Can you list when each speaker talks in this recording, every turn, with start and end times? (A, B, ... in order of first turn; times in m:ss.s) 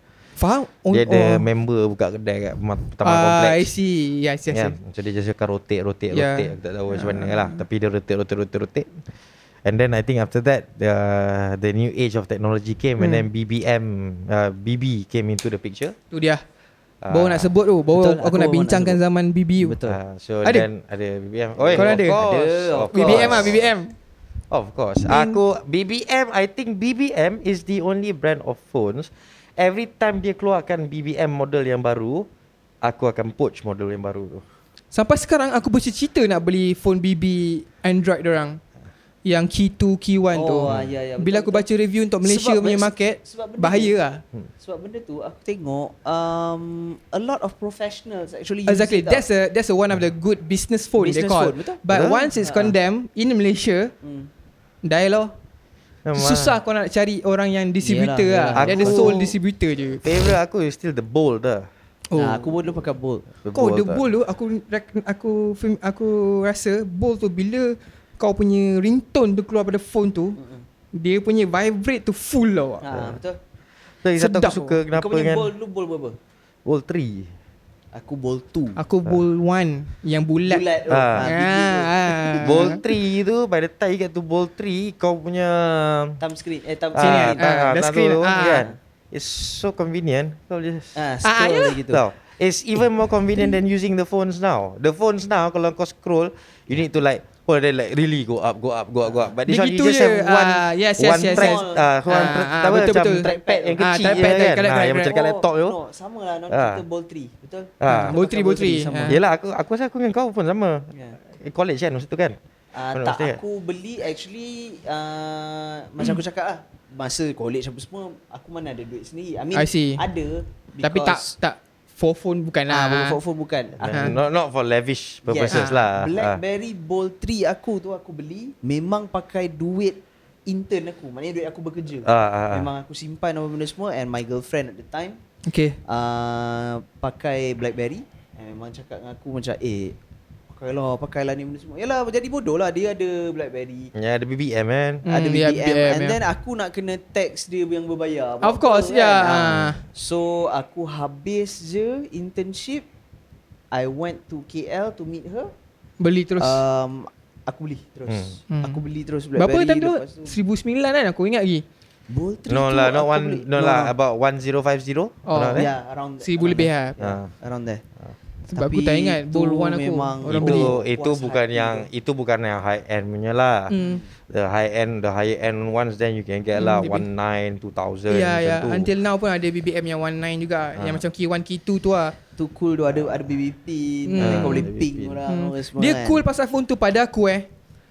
0:00.4-0:01.4 A
0:00.9-0:03.7 B
0:03.0-0:04.8 A
0:04.5-0:09.0 B
0:06.1-0:07.6 A
0:09.6-0:16.0 B
0:13.0-0:13.2 A
0:16.1-0:16.4 A
0:17.0-0:17.5 B
0:17.1-0:19.8 A
0:18.0-0:19.0 C
0:19.6-0:20.0 C
0:19.8-0:23.7 B
0:21.6-0:23.6 C
0:21.7-0:22.2 A
0:22.9-0:23.9 A
0:24.5-0:32.3 B
0:25.0-0:25.4 A
0:32.8-0:34.4 B
0:34.9-0:38.6 A
0:39.2-0:44.2 A
0:40.3-0:41.6 C
0:40.7-0:40.9 B
0:42.2-0:44.0 C
0:44.6-0:49.2 C
0:48.6-0:53.9 A
0:51.0-0:51.8 C
0:51.9-0:52.3 B
0:52.4-0:52.7 C
0:54.0-0:54.3 C
0:54.8-0:55.3 A
0:56.0-0:56.6 B
0:56.1-1:00.2 A
0:57.8-0:59.4 C
0:58.6-0:59.2 B
1:00.0-1:01.7 B
1:02.1-1:02.5 A
1:02.2-1:03.3 C
1:03.4-1:04.0 B
1:03.5-1:10.4 A
1:10.4-1:10.6 C
1:10.9-1:12.8 A
1:12.8-1:13.4 C
1:12.9-1:13.2 B
1:14.0-1:15.5 B
1:14.2-1:14.8 A
1:14.9-1:16.2 C
1:16.6-1:17.3 B
1:17.9-1:18.8 C
1:18.8-1:20.6 A
1:20.4-1:22.8 C
1:20.9-1:21.3 B
1:21.2-1:22.8 A
1:22.4-1:26.2 B
1:26.2-1:27.7 C
1:26.9-1:31.0 B
1:27.0-1:28.7 A
1:28.4-1:28.8 C
1:30.9-1:32.0 C
1:31.2-1:31.8 A
1:31.9-1:45.8 B
1:39.0-1:39.3 C
1:39.5-1:43.3 A
1:41.1-1:41.9 C
1:42.7-1:44.4 C
1:43.8-1:45.1 A
1:45.0-1:49.2 C
1:46.5-1:46.8 B
1:47.8-1:48.2 B
1:47.9-1:49.2 A
1:49.1-1:52.4 B
1:50.9-1:51.2 C
1:52.7-2:01.3 C
1:52.9-1:53.4 B
1:59.5-2:00.0 A
2:00.8-2:03.2 A
2:02.7-2:04.2 C
2:03.8-2:06.4 B
2:03.9-2:04.2 A
2:05.2-2:15.2 C
2:05.5-2:05.8 A
2:12.0-2:12.7 B
2:15.4-2:15.8 A
2:15.8-2:20.0 C
2:20.5-2:23.9 C
2:23.9-2:25.0 B
2:25.0-2:26.2 A
2:25.1-2:32.9 C
2:28.4-2:29.8 A
2:33.7-2:35.5 C
2:36.0-2:36.6 A
2:36.4-2:40.4 C
2:38.1-2:38.3 B
2:38.5-2:38.8 A
2:39.4-2:41.6 A
2:42.1-2:43.9 C
2:42.5-2:45.7 B
2:45.2-2:45.7 A
2:45.5-2:47.8 C
2:46.2-2:47.0 A
2:47.0-2:47.3 B
2:48.5-2:50.7 A
2:48.6-2:51.9 C
2:50.3-2:53.7 B
2:53.7-2:54.0 A
2:53.8-2:54.0 C
2:54.3-2:58.9 B
2:56.6-2:57.0 A
2:58.1-3:02.2 A
3:00.8-3:01.0 B
3:02.4-3:06.2 C
3:04.0-3:04.7 A
3:04.2-3:05.2 B
3:05.3-3:07.4 A